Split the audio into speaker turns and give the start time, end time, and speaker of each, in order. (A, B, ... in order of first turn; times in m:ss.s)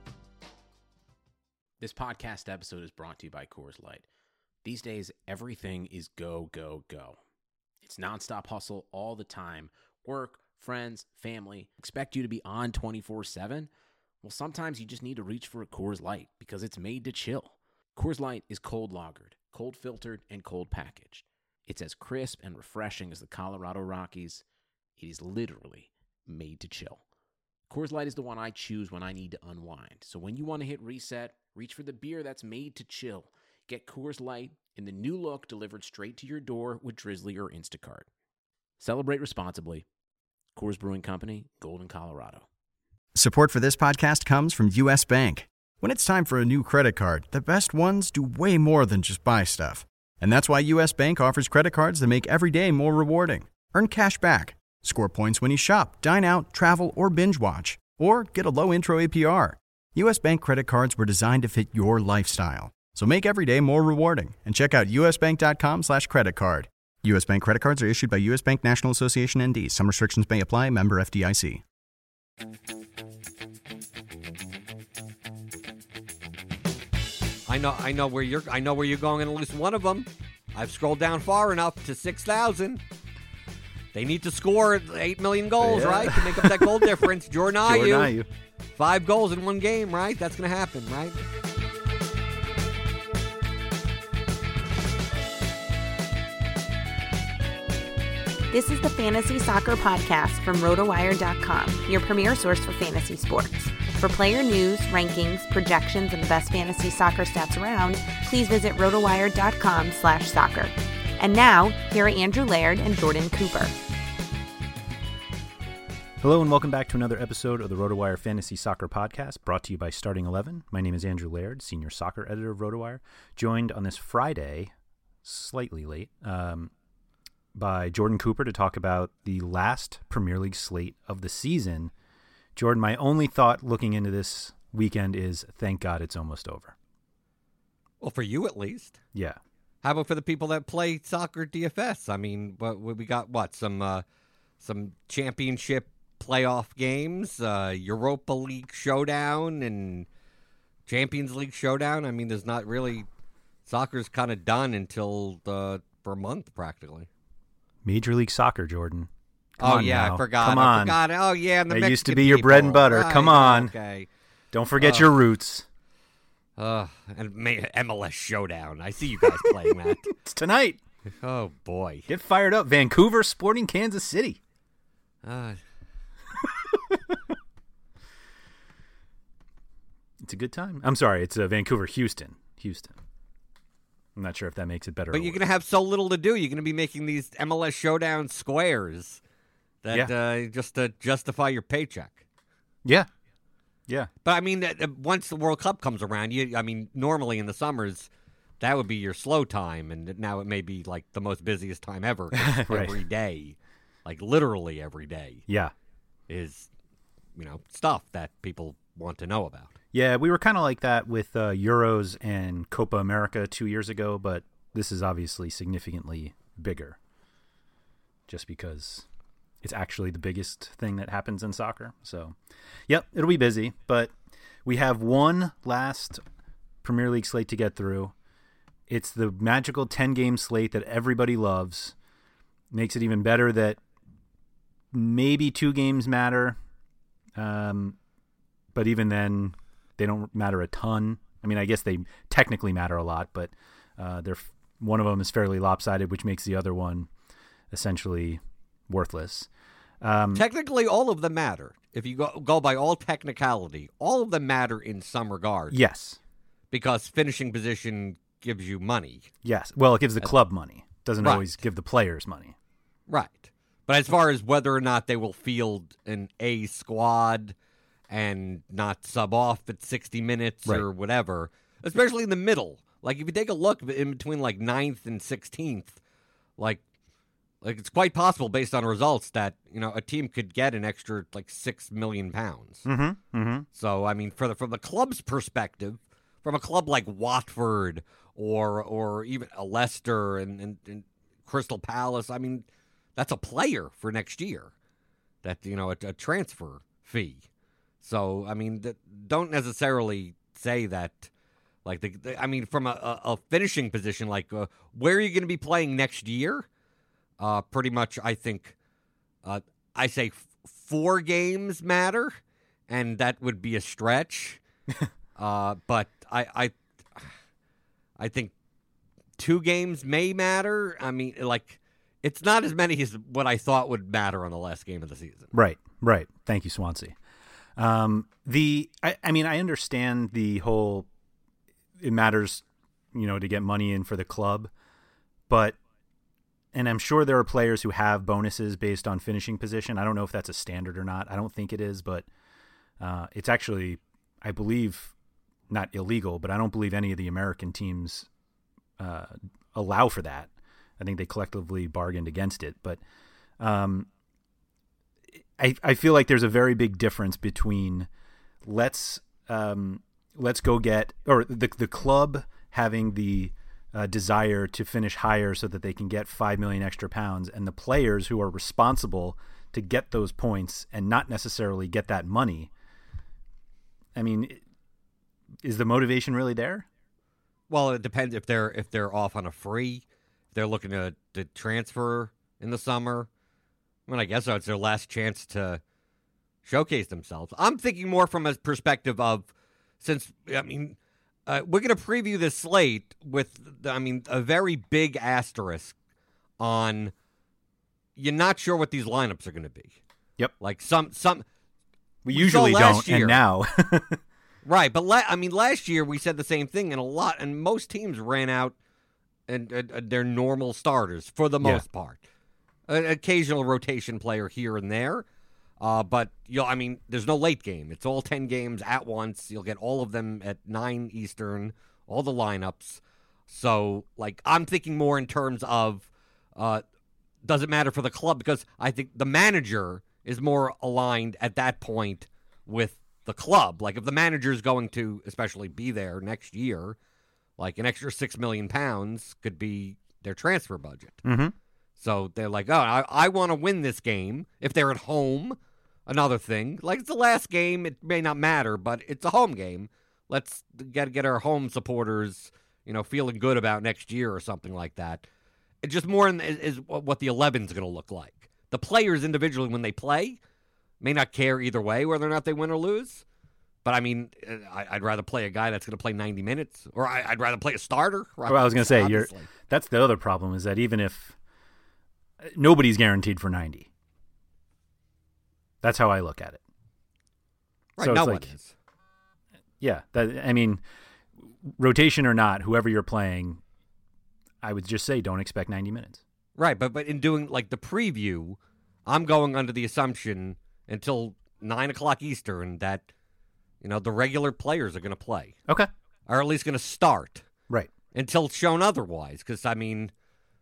0:01.8-0:04.0 A
0:04.6-0:07.2 A
0:07.8-0:13.7 A
0:14.2-0:24.4 A
0:25.0-0:27.0 A
0:27.7-0:38.1 A
0:38.8-0:39.8 A
0:40.5-0:42.4 A
0:43.1-1:11.6 B
1:17.5-1:22.8 C
1:23.9-1:28.1 C
1:25.6-1:27.1 D
1:27.6-1:28.3 D
1:28.8-1:31.2 C
1:38.5-1:53.7 E
1:56.2-2:04.7 D
2:05.2-2:06.7 D
2:07.5-2:11.9 D
2:12.5-2:16.7 D
2:18.0-2:19.0 C
2:19.1-2:19.4 D
2:19.8-2:24.0 C
2:24.6-2:30.1 C
2:30.9-2:33.1 C
2:33.7-2:37.1 C
2:37.8-2:41.0 D
2:39.6-2:44.1 C
2:41.7-2:43.7 D
2:44.5-2:45.6 D
2:44.8-2:45.1 C
2:46.6-2:50.1 C
2:49.2-2:50.8 D
2:51.2-2:52.1 C
2:52.1-2:54.4 D
2:55.2-2:55.6 C
3:00.2-3:03.0 D
3:04.2-3:05.4 D
3:05.1-3:09.2 C
3:09.8-3:12.2 C
3:14.2-3:18.1 C
3:18.6-3:25.4 C
3:22.3-3:23.0 D
3:25.5-3:25.7 D
3:26.3-3:26.7 C
3:27.4-3:29.7 C
3:29.9-3:37.0 D
3:38.3-3:39.0 D
3:39.6-3:42.3 D
3:42.9-3:44.1 D
3:44.6-3:46.2 D
3:46.8-3:48.1 D
3:48.9-3:51.9 D
3:52.7-3:53.8 D
3:54.9-3:56.6 D
3:57.3-3:58.0 D
3:58.7-4:07.1 D
4:07.7-4:09.5 D
4:10.0-4:10.4 D
4:10.3-4:15.8 C
4:15.7-4:16.2 D
4:16.7-4:19.3 C
4:19.4-4:22.6 D
4:21.2-4:21.5 C
4:23.1-4:27.5 C
4:28.1-4:36.0 C
4:37.6-4:42.8 C
4:42.8-4:43.6 D
4:43.7-4:52.6 C
4:53.2-4:54.7 C
4:55.4-4:57.4 C
4:58.0-5:01.3 C
5:01.8-5:06.7 C
5:07.4-5:08.7 C
5:09.4-5:14.6 C
5:15.4-5:17.3 C
5:18.2-5:18.5 C
5:19.4-5:25.5 C
5:25.5-5:27.2 D
5:27.8-5:31.1 D
5:32.0-5:34.7 D
5:35.5-5:35.8 D
5:36.7-5:42.3 D
5:43.0-5:45.1 D
5:45.7-5:48.3 D
5:49.0-5:53.0 D
5:53.6-5:54.1 D
5:55.6-5:58.1 D
5:58.6-6:12.7 D
6:14.1-6:14.6 D
6:15.6-6:16.9 D
6:17.7-6:23.3 C
6:24.1-6:25.8 C
6:26.6-6:29.5 C
6:30.0-6:35.9 C
6:36.6-6:37.1 C
6:38.2-6:39.9 C
6:40.6-6:41.4 C
6:42.2-6:44.2 D
6:42.3-6:43.4 C
6:44.6-6:48.8 C
6:49.5-6:52.2 C
6:52.9-6:55.2 C
6:55.8-7:06.8 C
7:07.4-7:17.0 C
7:17.6-7:21.2 C
7:21.2-7:21.5 D
7:22.0-7:35.2 C
7:35.8-7:40.4 C
7:41.0-7:43.2 C
7:43.8-7:49.5 C
7:48.5-7:51.3 D
7:52.4-7:53.9 D
7:55.8-7:56.6 D
7:58.0-7:58.7 C
7:58.0-7:58.5 D
7:59.8-8:00.8 D
8:01.5-8:03.6 D
8:04.6-8:06.2 D
8:06.6-8:13.1 C
8:13.8-8:15.5 C
8:16.3-8:17.4 C
8:18.1-8:20.1 C